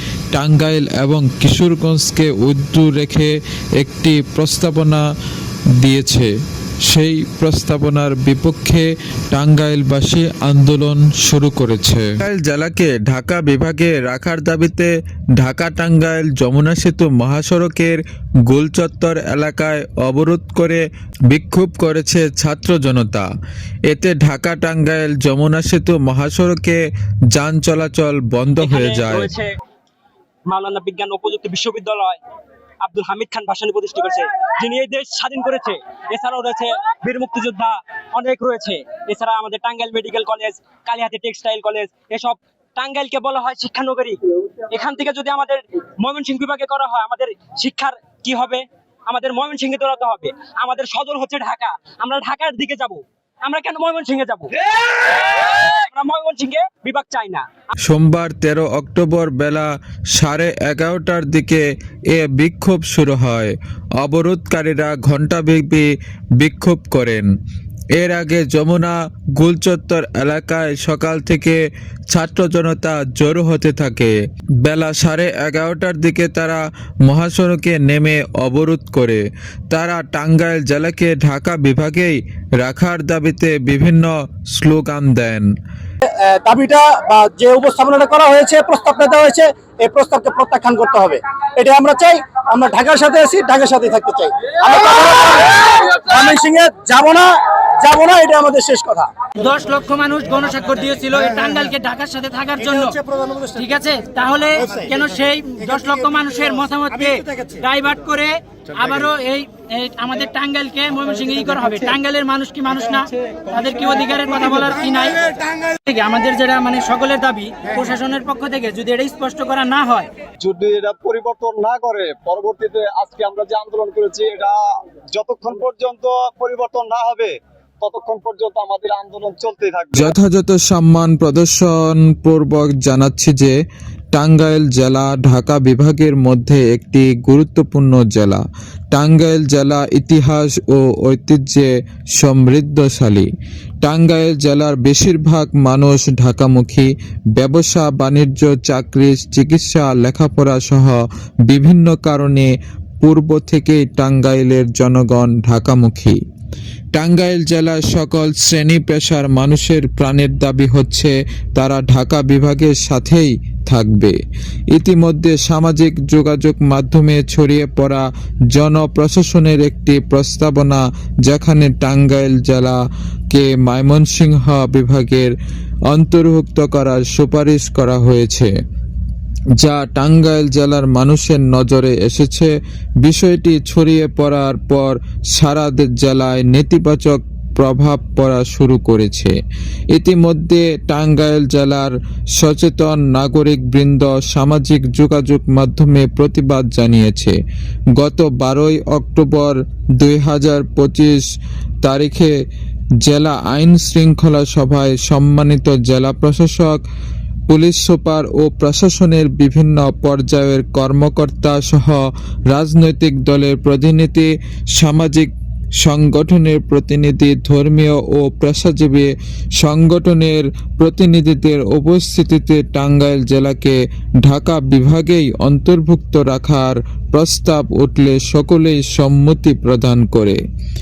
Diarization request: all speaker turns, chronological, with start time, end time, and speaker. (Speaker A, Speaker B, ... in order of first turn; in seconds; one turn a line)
Speaker A: 0.3-5.0
Speaker A: 5.8-6.3
Speaker A: 6.9-23.3
Speaker A: 23.9-26.8
Speaker A: 27.3-29.3
Speaker B: 28.6-29.5
Speaker B: 30.5-32.2
Speaker B: 32.8-57.4
Speaker A: 57.8-65.8
Speaker A: 66.4-67.3
Speaker A: 68.0-71.6
Speaker A: 72.1-85.5
Speaker C: 86.0-99.1
Speaker D: 99.4-103.0
Speaker C: 103.1-103.5
Speaker D: 103.5-120.1
Speaker E: 120.4-124.6
Speaker E: 125.1-130.1
Speaker A: 129.9-133.5
Speaker A: 134.1-138.4
Speaker A: 138.9-143.3
Speaker A: 143.8-152.5
Speaker A: 153.0-156.2
Speaker A: 156.9-164.2
Speaker A: 164.7-172.8
Speaker A: 173.3-175.3
Speaker A: 175.9-178.5
Speaker A: 179.6-189.3
Speaker A: 189.9-197.3
Speaker A: 198.0-201.2
Speaker A: 201.8-202.3
Speaker A: 203.0-206.8
Speaker A: 207.5-215.3
Speaker A: 215.8-230.4